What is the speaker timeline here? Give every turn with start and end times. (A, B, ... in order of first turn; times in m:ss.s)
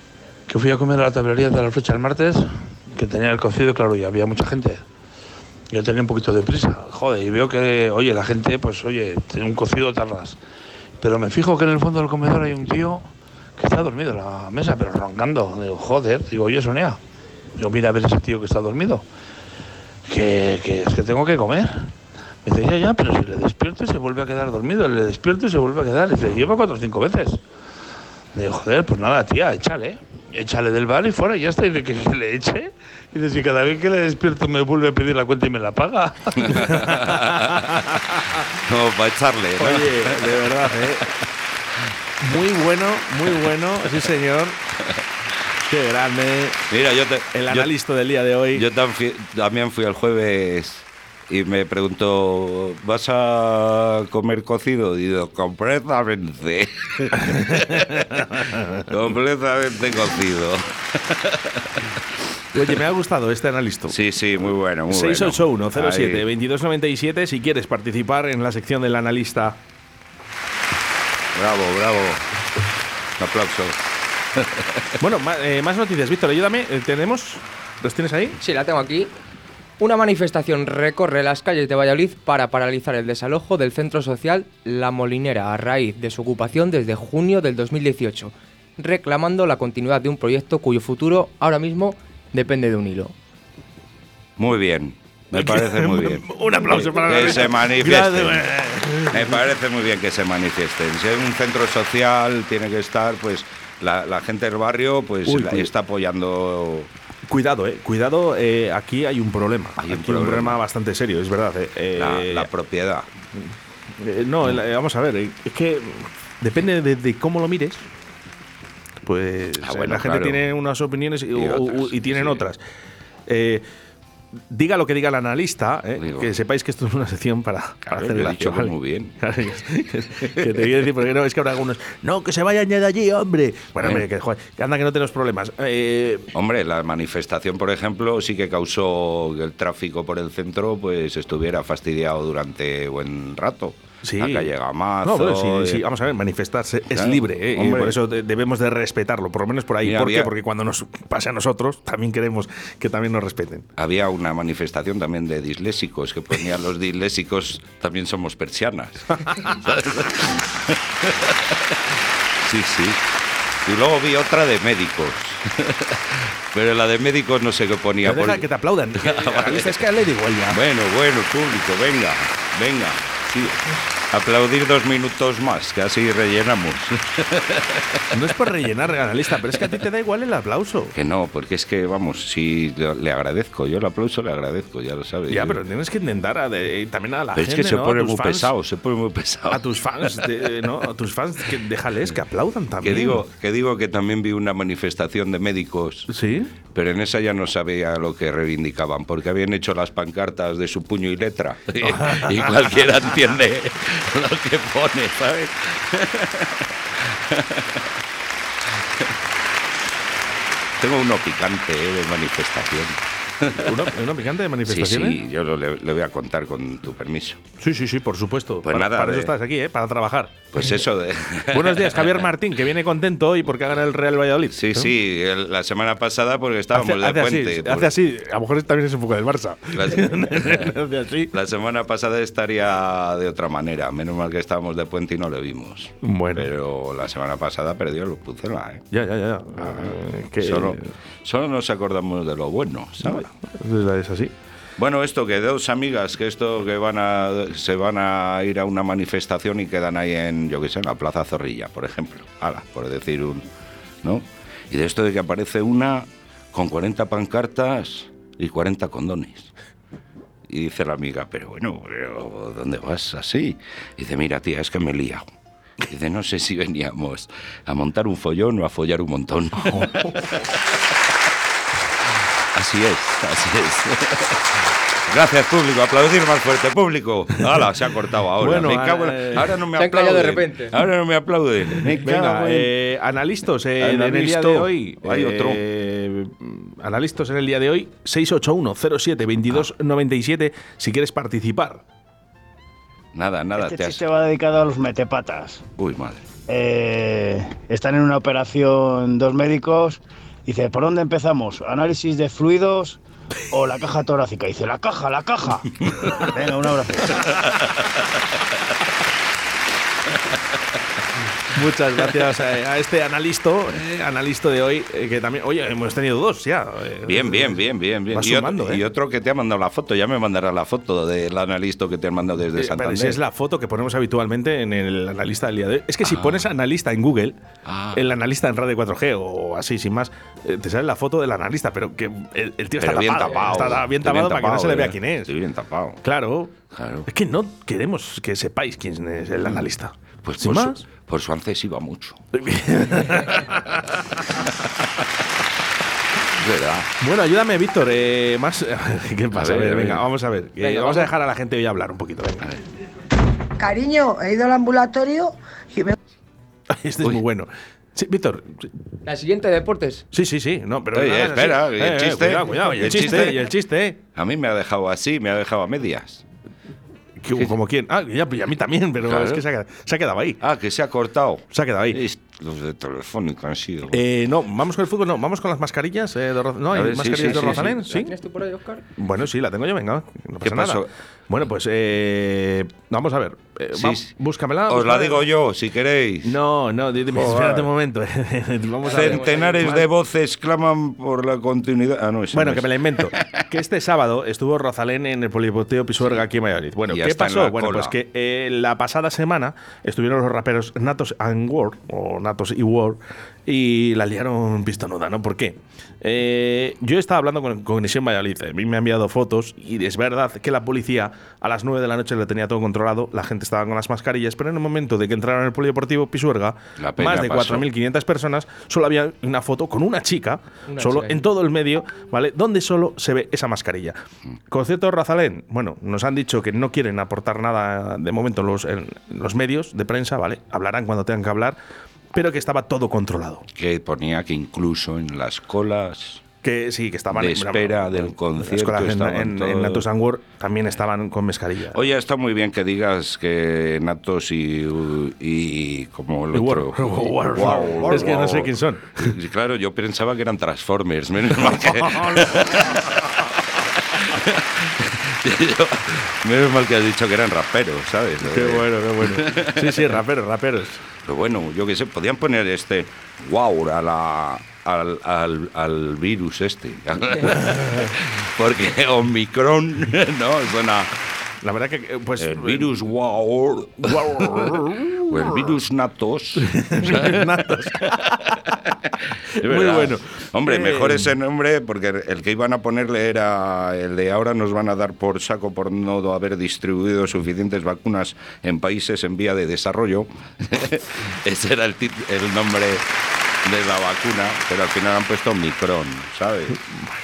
0:00.5-0:04.8 A
0:05.7-0:10.4 A
0:11.0-0:17.0 A
0:17.6-0:19.0 A
0:20.1-0:21.9 A
0:22.4-0:27.4 A
0:28.3-0:36.6 A
0:36.4-0:38.0 B
0:36.6-0:38.4 C
0:38.5-0:40.9 B
0:39.6-0:41.2 C
0:42.2-0:44.6 C
0:45.6-0:46.6 C
0:46.7-0:47.7 B
0:47.3-0:48.6 C
0:48.5-0:58.2 B
0:57.2-0:58.6 C
0:58.9-1:02.0 B
1:02.5-1:04.0 C
1:03.9-1:06.3 B
1:04.9-1:09.6 C
1:11.3-1:12.2 B
1:13.2-1:13.8 B
1:14.4-1:15.0 B
1:15.0-1:18.4 C
1:18.4-1:19.1 D
1:19.8-1:33.1 D
1:34.4-1:38.5 B
1:35.4-1:39.4 C
1:39.0-1:46.9 B
1:45.3-1:45.7 C
1:47.3-1:52.5 C
1:49.8-1:50.6 B
1:52.0-1:53.1 B
1:54.0-1:57.9 C
1:59.0-2:02.6 C
1:59.6-2:00.5 B
2:01.3-2:02.4 B
2:03.3-2:03.6 C
2:04.5-2:16.3 C
2:06.0-2:06.4 B
2:07.9-2:09.2 B
2:13.8-2:14.1 B
2:16.3-2:25.8 B
2:24.0-2:24.5 C
2:25.0-2:33.7 C
2:26.9-2:28.0 B
2:29.8-2:30.3 B
2:33.8-2:43.0 B
2:43.6-2:49.8 B
2:48.0-2:50.6 C
2:50.5-2:58.1 B
2:58.1-3:01.0 C
3:00.9-3:05.6 B
3:05.3-3:08.5 C
3:07.3-3:10.5 B
3:09.5-3:13.2 C
3:12.8-3:16.1 B
3:16.1-3:16.5 C
3:16.7-3:28.0 B
3:21.9-3:22.3 C
3:28.6-3:29.2 B
3:30.8-3:33.9 B
3:33.6-3:35.2 C
3:34.6-3:37.4 B
3:37.6-3:40.7 C
3:38.6-3:39.4 B
3:40.5-3:42.3 B
3:41.5-3:44.9 C
3:44.5-3:47.9 B
3:46.7-3:51.3 C
3:49.7-3:50.8 B
3:51.3-3:58.9 B
3:56.0-3:56.5 C
3:58.9-4:00.9 C
3:59.6-4:03.3 B
4:03.0-4:04.3 C
4:04.8-4:13.5 B
4:14.0-4:19.5 B
4:20.5-4:25.2 B
4:25.8-4:30.8 B
4:29.7-4:30.1 C
4:32.5-4:42.7 B
4:38.4-4:39.6 C
4:39.7-4:40.8 D
4:42.0-4:51.8 C
4:43.8-4:45.6 B
4:53.1-4:54.0 B
4:53.6-4:55.7 E
4:55.8-4:56.2 B
4:56.5-5:03.0 E
5:03.5-5:07.3 E
5:11.5-5:17.6 C
5:17.0-5:23.2 B
5:18.1-5:18.8 C
5:22.6-5:27.4 C
5:26.0-5:26.5 B
5:27.7-5:28.1 B
5:27.9-5:35.3 C
5:32.8-5:36.0 B
5:36.0-5:36.5 C
5:36.7-5:37.1 B
5:37.1-5:40.8 C
5:40.2-5:42.2 B
5:42.3-5:43.9 C
5:46.3-5:46.9 B
5:47.0-5:52.5 C
5:49.3-5:50.1 B
5:50.6-5:51.1 D
5:53.6-5:56.0 F
5:56.7-5:58.7 C
5:59.0-6:00.0 D
6:00.1-6:04.0 C
6:00.9-6:03.5 B
6:04.2-6:06.2 B
6:07.2-6:10.4 C
6:09.0-6:09.4 B
6:10.4-6:14.0 B
6:11.5-6:12.0 C
6:13.9-6:18.1 C
6:16.7-6:17.9 B
6:17.3-6:18.8 D
6:19.0-6:25.2 C
6:20.4-6:20.9 B
6:23.7-6:24.1 B
6:24.7-6:26.4 B
6:26.2-6:29.9 C
6:27.1-6:27.7 B
6:28.8-6:33.4 B
6:29.0-6:29.5 D
6:32.3-7:04.0 C
6:36.9-6:38.0 B
6:56.8-6:57.7 B
7:00.7-7:01.2 D
7:04.5-7:11.6 C
7:12.1-7:13.5 C
7:13.6-7:16.2 B
7:16.4-7:21.8 C
7:17.1-7:19.9 B
7:21.7-7:40.0 B
7:26.3-7:29.1 C
7:31.5-7:32.3 C
7:38.2-7:40.8 C
7:41.0-7:51.0 B
7:51.4-7:52.7 C
7:52.2-7:57.4 B
7:53.8-7:55.2 C
7:56.4-7:58.5 C
7:58.3-8:12.9 B
7:59.4-8:01.1 C
8:13.4-8:16.6 B